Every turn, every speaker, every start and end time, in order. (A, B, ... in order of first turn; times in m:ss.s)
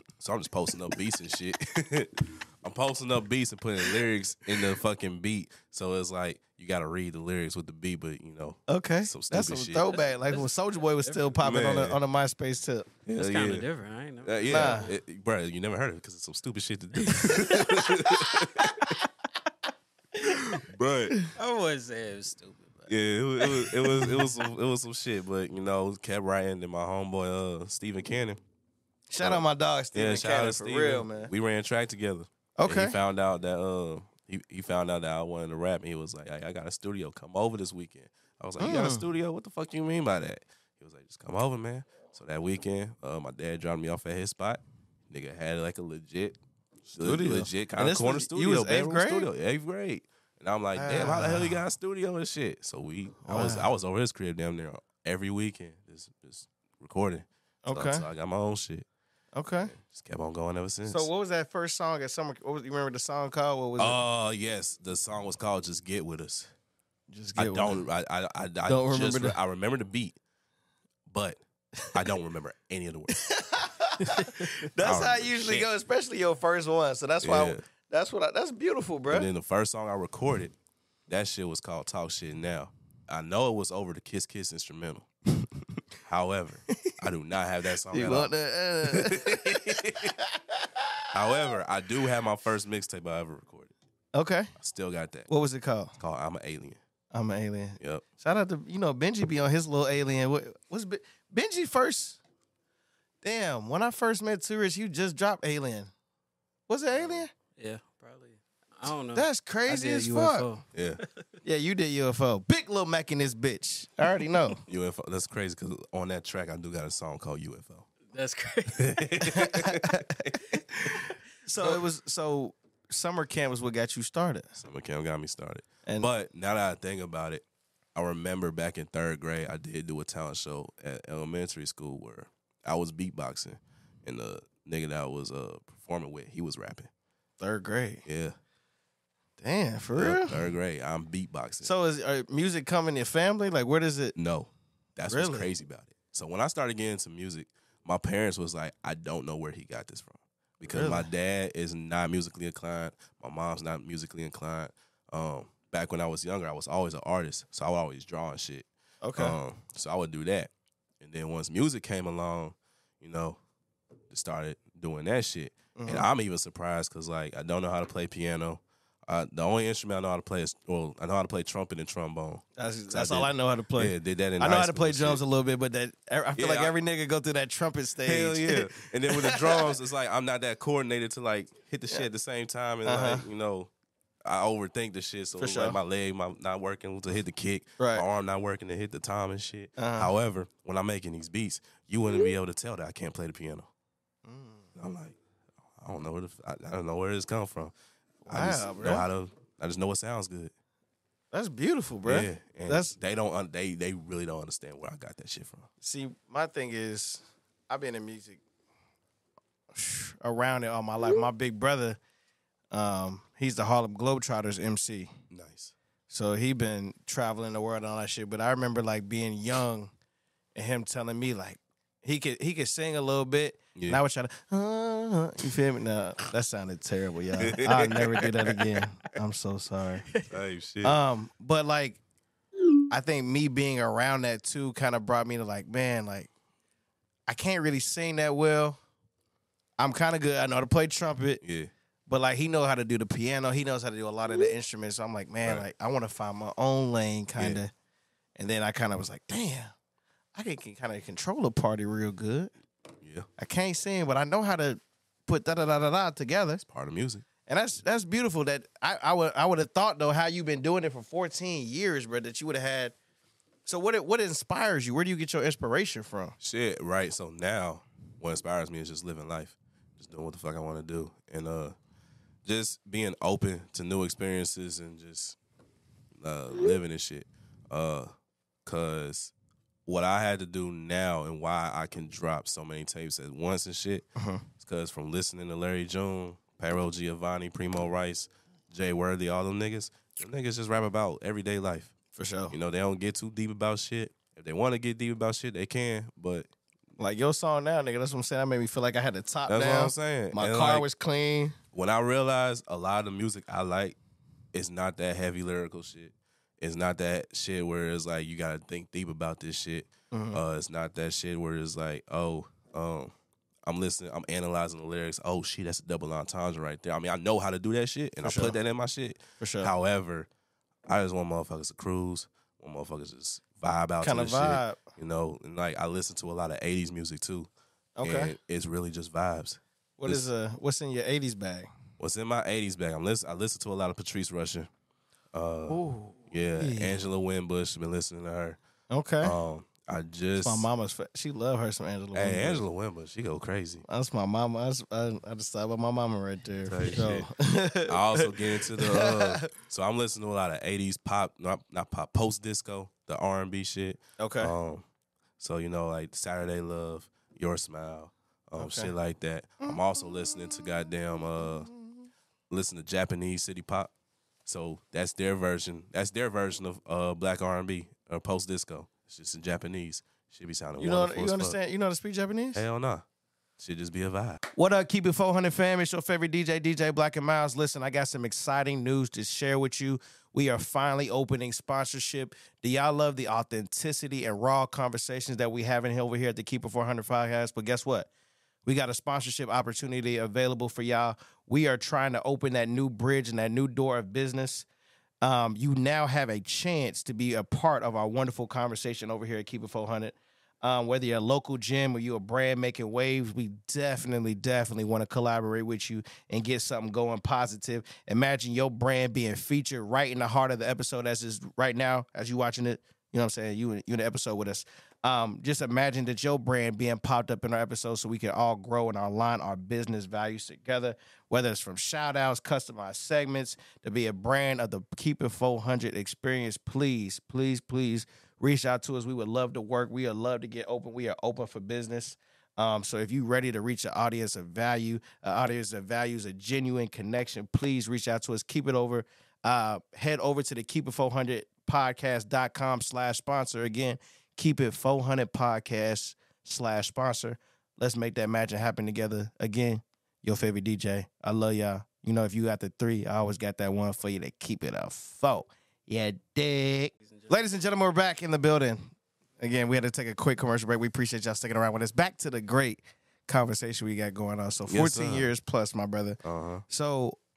0:00.2-0:10.0 A
0:08.7-0:12.9 B
0:10.1-0:11.4 C
0:11.4-0:12.0 A
0:13.1-0:13.7 A
0:13.2-0:14.9 C
0:14.2-0:18.8 A
0:14.5-0:14.9 B
0:17.2-0:17.8 C
0:18.2-0:18.9 B
0:20.2-0:21.2 A
0:21.3-0:22.9 C
0:22.9-0:28.4 A
0:23.5-0:23.7 C
0:29.1-0:31.3 B
0:29.2-0:46.4 A
0:32.6-0:33.0 B
0:38.6-0:39.1 B
0:46.9-0:58.9 A
0:47.0-0:49.3 B
0:50.8-0:51.6 B
0:53.2-0:53.7 B
0:57.6-0:58.0 B
0:59.4-0:59.7 B
0:59.7-1:01.1 A
1:00.9-1:04.0 B
1:03.8-1:06.5 A
1:07.1-1:07.8 B
1:07.4-1:10.2 A
1:08.7-1:09.4 B
1:11.1-1:11.4 A
1:11.9-1:13.3 A
1:13.1-1:19.3 B
1:14.1-1:14.4 C
1:14.8-1:15.7 A
1:17.2-1:17.6 A
1:19.1-1:20.5 A
1:21.1-1:25.1 A
1:26.1-1:30.2 A
1:27.9-1:31.1 B
1:31.1-1:33.7 A
1:34.1-1:34.5 B
1:34.6-1:35.3 A
1:35.3-1:36.0 B
1:36.0-1:36.8 A
1:37.1-1:42.2 B
1:43.2-1:45.9 B
1:46.7-1:47.3 B
1:47.0-1:51.2 C
1:49.1-1:50.5 B
1:50.7-1:51.0 A
1:51.4-1:54.6 B
1:54.7-1:57.9 A
1:58.1-1:59.0 C
1:58.7-2:00.4 A
1:59.3-2:04.5 B
2:04.6-2:07.4 A
2:08.0-2:16.9 A
2:17.4-2:18.0 B
2:18.0-2:18.4 A
2:19.4-2:20.5 B
2:20.0-2:21.7 A
2:21.6-2:24.1 B
2:24.2-2:43.4 A
2:25.1-2:25.5 B
2:30.6-2:31.1 B
2:39.0-2:39.4 B
2:44.1-2:55.2 A
2:45.8-2:46.1 B
2:52.6-2:59.7 B
2:56.4-2:56.8 A
2:58.0-3:03.7 A
3:02.8-3:03.2 B
3:04.2-3:13.7 A
3:05.4-3:05.8 B
3:07.8-3:08.0 B
3:09.8-3:10.1 B
3:14.2-3:14.7 B
3:14.8-3:15.2 A
3:15.8-3:17.7 A
3:18.3-3:19.1 B
3:18.3-3:20.5 A
3:21.3-3:23.0 B
3:22.1-3:25.7 A
3:25.8-3:28.4 B
3:29.7-3:32.0 B
3:32.7-3:35.1 B
3:35.3-3:35.7 A
3:36.1-3:39.9 B
3:40.6-3:50.1 B
3:43.8-3:44.0 A
3:47.4-3:48.8 A
3:50.3-3:51.0 A
3:50.8-3:52.0 B
3:52.9-3:56.3 B
3:57.3-3:58.8 B
3:59.8-4:01.4 B
4:01.4-4:01.7 A
4:02.1-4:07.7 B
4:08.4-4:09.7 B
4:10.4-4:12.5 B
4:13.0-4:13.3 A
4:13.4-4:16.6 B
4:16.7-4:17.2 A
4:17.5-4:23.0 B
4:23.7-4:26.4 B
4:26.4-4:31.8 A
4:32.4-4:35.4 A
4:36.1-4:38.1 A
4:38.6-4:39.3 A
4:39.9-4:44.1 A
4:44.2-4:44.5 B
4:44.6-4:51.9 A
4:52.2-4:52.6 B
4:52.5-4:56.5 A
4:57.0-5:01.6 B
4:59.5-5:00.8 A
5:01.7-5:04.0 A
5:04.5-5:13.1 A
5:10.1-5:10.4 B
5:13.6-5:20.3 A
5:18.2-5:18.6 B
5:19.4-5:19.7 B
5:20.9-5:27.5 A
5:24.0-5:24.8 B
5:28.0-5:28.3 B
5:28.0-5:30.3 A
5:30.0-5:31.7 B
5:32.0-5:34.7 A
5:35.3-5:38.6 A
5:35.7-5:37.0 B
5:38.9-5:39.4 B
5:39.2-5:40.7 A
5:40.4-5:42.6 B
5:42.1-5:43.8 A
5:43.9-5:49.5 B
5:46.7-5:47.3 A
5:47.9-5:54.8 A
5:54.2-5:54.5 B
5:55.4-6:01.7 A
5:58.6-5:58.9 B
6:01.7-6:02.0 B
6:02.5-6:03.9 A
6:04.5-6:11.6 A
6:10.8-6:12.6 B
6:12.6-6:13.0 A
6:13.6-6:14.4 A
6:14.6-6:28.1 B
6:28.6-6:34.7 B
6:35.2-7:47.2 B
7:37.0-7:37.3 C
7:44.7-7:45.3 A
7:46.2-7:46.6 A